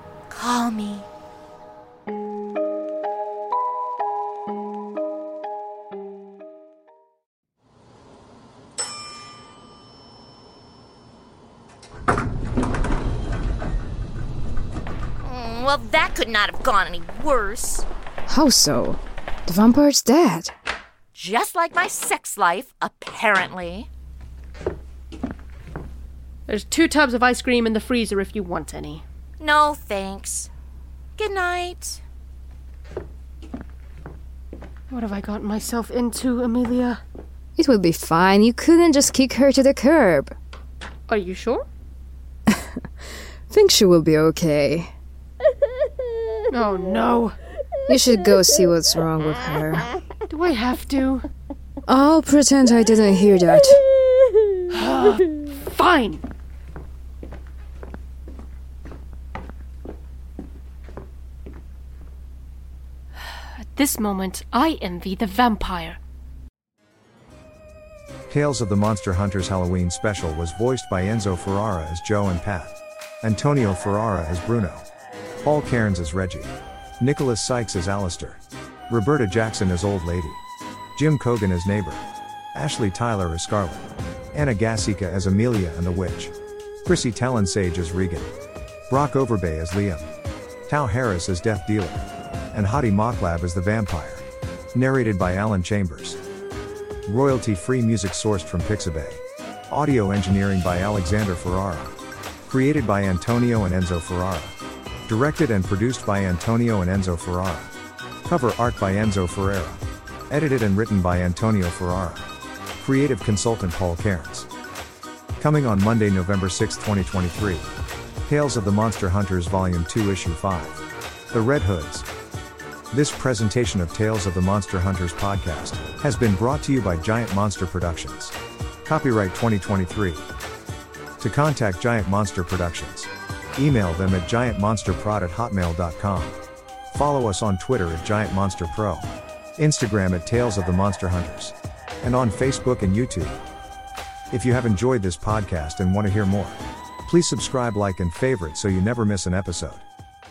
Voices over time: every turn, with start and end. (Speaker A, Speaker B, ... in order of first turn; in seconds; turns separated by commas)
Speaker A: 0.3-1.1, Speaker A: 15.2-17.8, Speaker B: 18.3-20.5, Speaker A: 21.1-23.9, Speaker C: 26.5-29.0, Speaker A: 29.4-30.5, Speaker A: 31.2-32.0, Speaker C: 34.9-37.0, Speaker B: 37.6-40.3, Speaker C: 41.1-41.6, Speaker B: 42.5-42.8, Speaker B: 43.5-44.9, Speaker C: 46.5-47.4, Speaker B: 47.9-49.9, Speaker C: 50.3-51.2, Speaker B: 51.9-53.8, Speaker C: 54.7-56.2, Speaker C: 63.6-66.0, Speaker D: 68.3-74.8, Speaker D: 75.4-78.4, Speaker D: 78.9-80.4, Speaker D: 81.0-82.0, Speaker D: 82.5-86.3, Speaker D: 86.8-88.3, Speaker D: 88.9-90.1, Speaker D: 90.7-96.2, Speaker D: 97.1-101.9, Speaker D: 102.5-104.5, Speaker D: 105.1-107.7, Speaker D: 108.2-112.2, Speaker D: 112.8-114.5, Speaker D: 115.4-117.7, Speaker D: 118.2-120.8, Speaker D: 121.3-122.0, Speaker D: 122.9-128.3, Speaker D: 128.8-130.2, Speaker D: 131.2-136.4, Speaker D: 136.9-139.1, Speaker D: 139.6-143.4, Speaker D: 144.3-149.8